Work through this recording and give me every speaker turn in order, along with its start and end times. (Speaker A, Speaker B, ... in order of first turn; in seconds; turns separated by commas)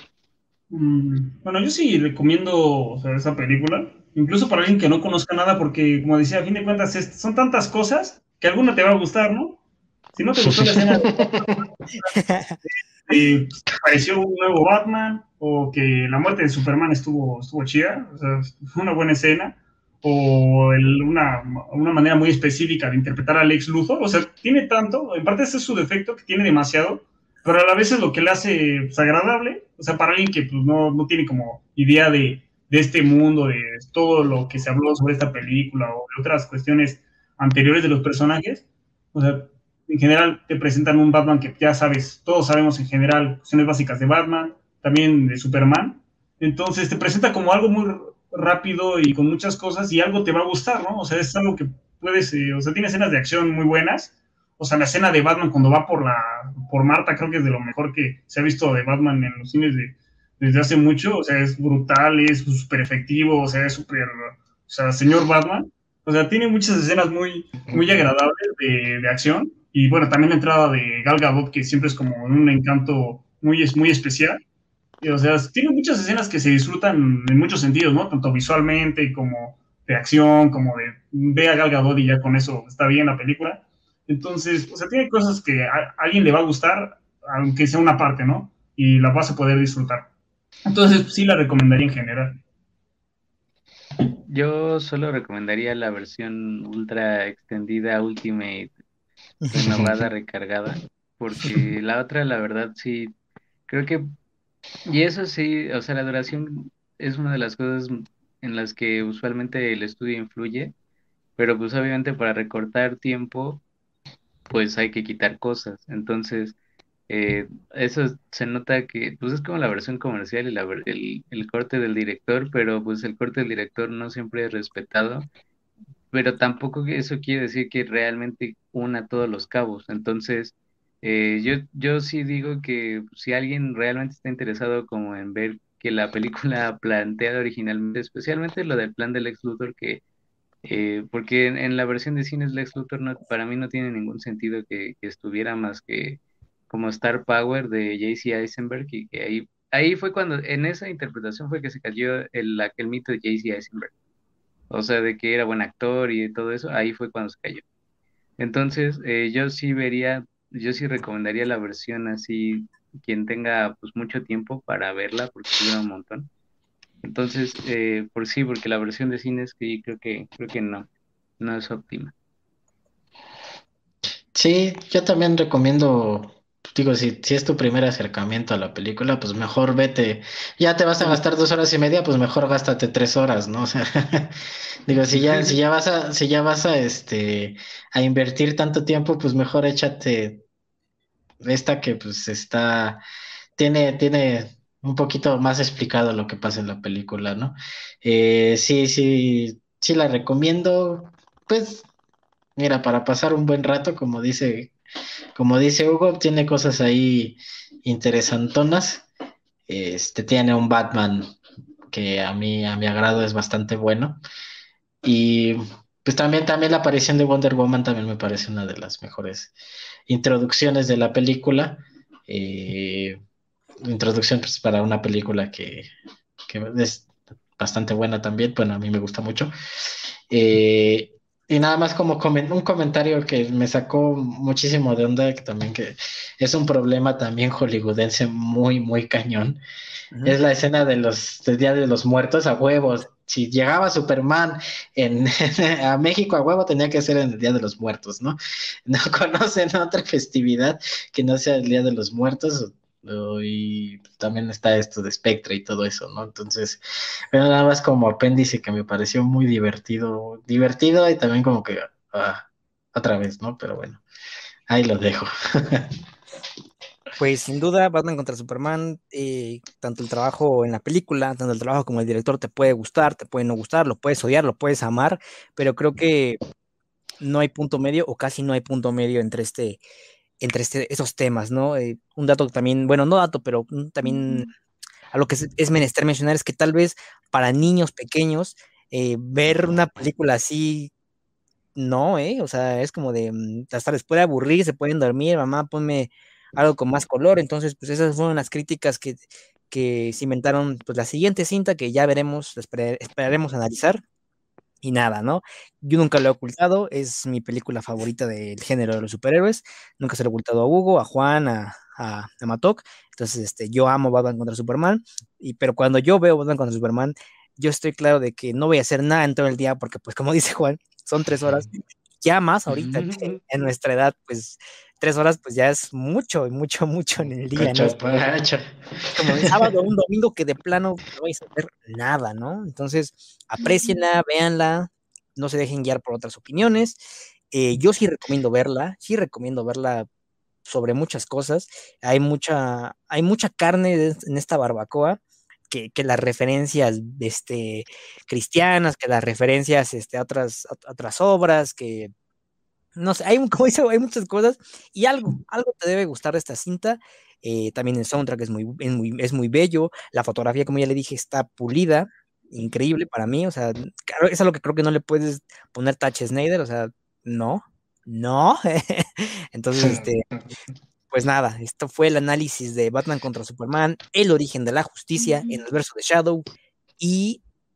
Speaker A: 0.7-9.6, Speaker A: 10.1-12.1, Speaker B: 10.4-11.6, Speaker C: 12.1-12.6, Speaker A: 13.1-74.4, Speaker A: 75.0-90.1, Speaker A: 90.7-92.4, Speaker D: 94.3-98.7, Speaker C: 99.4-99.8, Speaker D: 99.5-103.1, Speaker D: 103.7-104.1, Speaker D: 104.9-110.7, Speaker D: 111.4-113.6, Speaker D: 114.5-116.6, Speaker D: 117.1-125.3, Speaker D: 126.1-140.0, Speaker D: 140.6-153.9, Speaker D: 154.7-157.6, Speaker D: 158.4-166.3, Speaker D: 167.0-170.9, Speaker D: 171.4-172.1, Speaker B: 174.3-184.3, Speaker B: 184.9-190.4, Speaker C: 185.2-185.4, Speaker B: 191.4-193.0, Speaker B: 193.6-201.9, Speaker B: 202.6-204.7, Speaker B: 205.4-209.1, Speaker B: 209.7-211.3, Speaker B: 211.9-214.2, Speaker B: 215.0-219.5, Speaker B: 220.1-223.2, Speaker B: 223.8-225.9, Speaker B: 226.5-229.5, Speaker B: 230.3-239.6, Speaker C: 240.1-240.4, Speaker B: 240.2-264.0, Speaker B: 264.7-265.9, Speaker C: 267.2-276.4, Speaker C: 277.2-279.8, Speaker C: 280.4-284.5, Speaker C: 285.1-290.9, Speaker C: 291.7-304.0, Speaker C: 304.8-321.7, Speaker C: 322.2-328.3, Speaker B: 322.9-323.3, Speaker B: 327.6-329.6, Speaker C: 329.1-340.1, Speaker C: 340.6-345.2, Speaker C: 345.7-352.1, Speaker C: 352.9-370.3, Speaker B: 369.8-370.1, Speaker C: 371.1-376.4, Speaker C: 377.0-377.4